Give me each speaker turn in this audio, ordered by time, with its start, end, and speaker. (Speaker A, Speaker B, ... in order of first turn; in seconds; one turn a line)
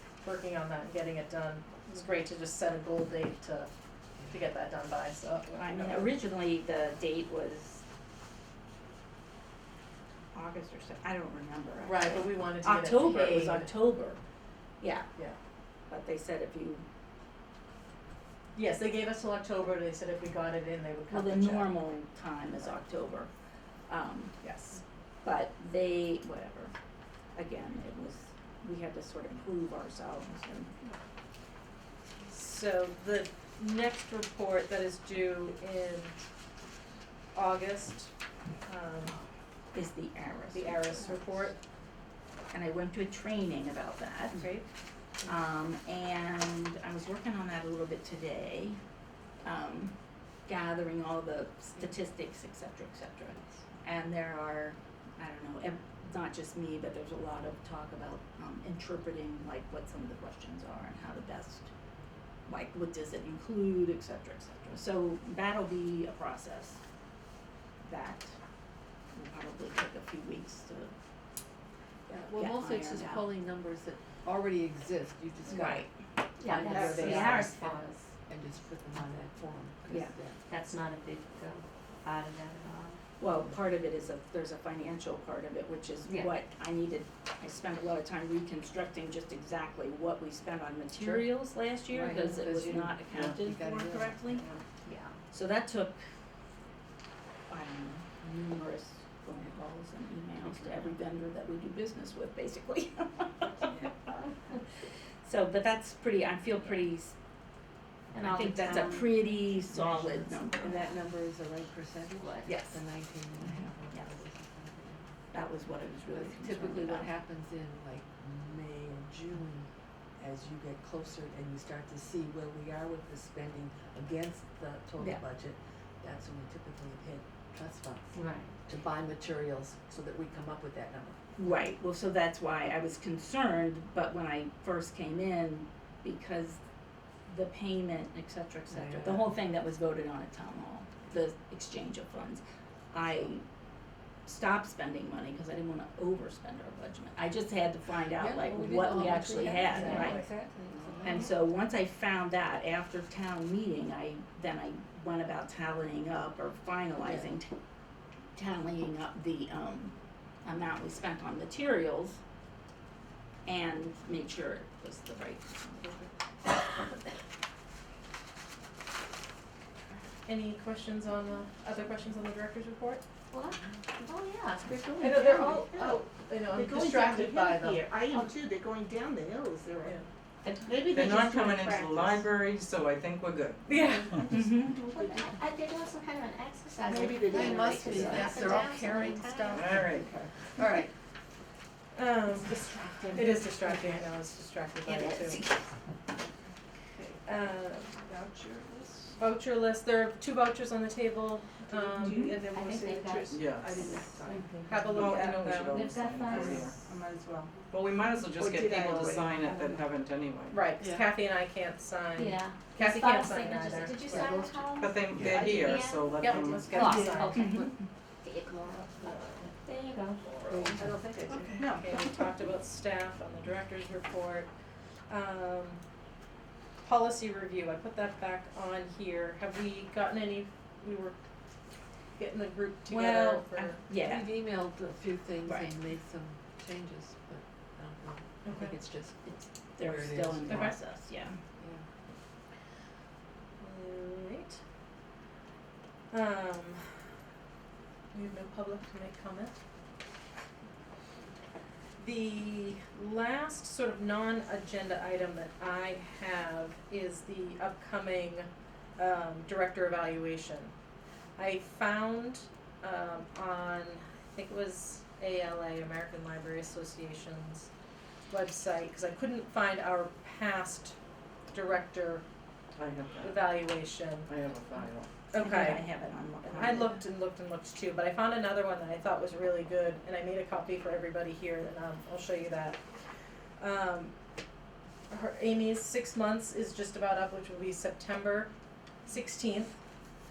Speaker A: 0.2-3.7
Speaker A: 4.3-6.1
Speaker B: 5.5-7.8
Speaker B: 10.3-14.2
Speaker A: 11.8-13.7
Speaker B: 14.8-15.1
Speaker B: 15.9-16.8
Speaker A: 18.5-21.8
Speaker B: 21.1-23.3
Speaker B: 23.9-24.4
Speaker A: 24.4-24.8
Speaker B: 25.2-26.7
Speaker B: 27.3-30.7
Speaker A: 32.3-36.2
Speaker A: 37.3-38.1
Speaker A: 38.6-39.1
Speaker B: 39.7-41.4
Speaker A: 40.5-41.6
Speaker B: 42.5-44.4
Speaker A: 44.3-44.6
Speaker B: 45.2-48.8
Speaker B: 49.4-49.9
Speaker B: 50.5-61.7
Speaker B: 62.5-66.8
Speaker B: 67.8-68.3
Speaker B: 69.1-70.9
Speaker B: 72.1-73.3
Speaker C: 72.1-75.9
Speaker B: 75.5-75.9
Speaker D: 76.4-78.0
Speaker C: 76.4-80.4
Speaker B: 76.5-77.6
Speaker B: 79.9-80.1
Speaker D: 80.5-83.0
Speaker B: 83.2-94.5
Speaker D: 86.1-86.3
Speaker C: 91.0-91.3
Speaker C: 91.9-94.4
Speaker E: 93.1-93.4
Speaker E: 94.3-94.6
Speaker D: 94.8-95.2
Speaker B: 95.3-96.0
Speaker B: 97.5-103.9
Speaker B: 105.2-107.1
Speaker D: 108.1-109.3
Speaker B: 108.2-111.0
Speaker C: 109.7-115.1
Speaker D: 112.2-112.5
Speaker B: 112.5-112.8
Speaker B: 113.4-114.1
Speaker B: 115.3-117.1
Speaker C: 116.1-131.2
Speaker D: 128.1-128.5
Speaker B: 131.4-136.6
Speaker B: 137.3-143.4
Speaker C: 138.7-139.3
Speaker B: 144.2-150.2
Speaker C: 148.2-151.3
Speaker D: 149.8-150.1
Speaker B: 151.0-157.5
Speaker C: 157.0-157.3
Speaker B: 158.3-162.2
Speaker B: 163.4-166.1
Speaker A: 170.2-173.0
Speaker D: 173.3-175.2
Speaker F: 175.0-180.0
Speaker A: 175.0-177.8
Speaker A: 179.8-180.1
Speaker D: 180.4-181.5
Speaker F: 180.7-182.2
Speaker E: 180.9-184.2
Speaker A: 183.7-184.3
Speaker B: 184.3-184.8
Speaker F: 184.6-185.4
Speaker D: 184.9-189.7
Speaker F: 186.9-188.5
Speaker C: 187.1-190.9
Speaker E: 189.5-190.1
Speaker A: 191.9-195.4
Speaker D: 194.8-195.6
Speaker A: 197.2-198.0
Speaker A: 199.2-203.0
Speaker D: 202.2-204.9
Speaker E: 203.3-203.8
Speaker A: 204.7-206.6
Speaker E: 204.8-206.8
Speaker D: 205.7-206.7
Speaker F: 206.5-207.5
Speaker E: 207.7-210.6
Speaker F: 208.3-209.8
Speaker A: 210.5-214.4
Speaker C: 210.8-211.1
Speaker D: 212.2-220.9
Speaker E: 214.7-217.1
Speaker A: 216.2-217.4
Speaker B: 217.3-217.6
Speaker A: 219.0-219.5
Speaker A: 220.4-220.7
Speaker C: 220.7-221.6
Speaker A: 221.6-224.5
Speaker A: 225.1-225.8
Speaker A: 226.8-231.2
Speaker A: 232.2-233.8
Speaker B: 232.9-234.6
Speaker C: 233.9-240.8
Speaker B: 235.4-235.7
Speaker A: 238.4-238.8
Speaker B: 239.2-241.4
Speaker A: 240.4-240.8
Speaker C: 241.6-241.8
Speaker A: 243.6-244.6
Speaker A: 246.1-247.0
Speaker A: 248.1-249.5
Speaker A: 252.0-260.7
Speaker A: 261.4-267.7
Speaker A: 268.3-270.9
Speaker A: 271.5-272.2
Speaker E: 272.7-275.1
Speaker A: 273.2-274.3
Speaker A: 275.3-275.8
Speaker B: 275.3-277.0
Speaker A: 276.5-282.8
Speaker A: 283.6-284.1
Speaker A: 285.1-288.5
Speaker A: 289.1-289.8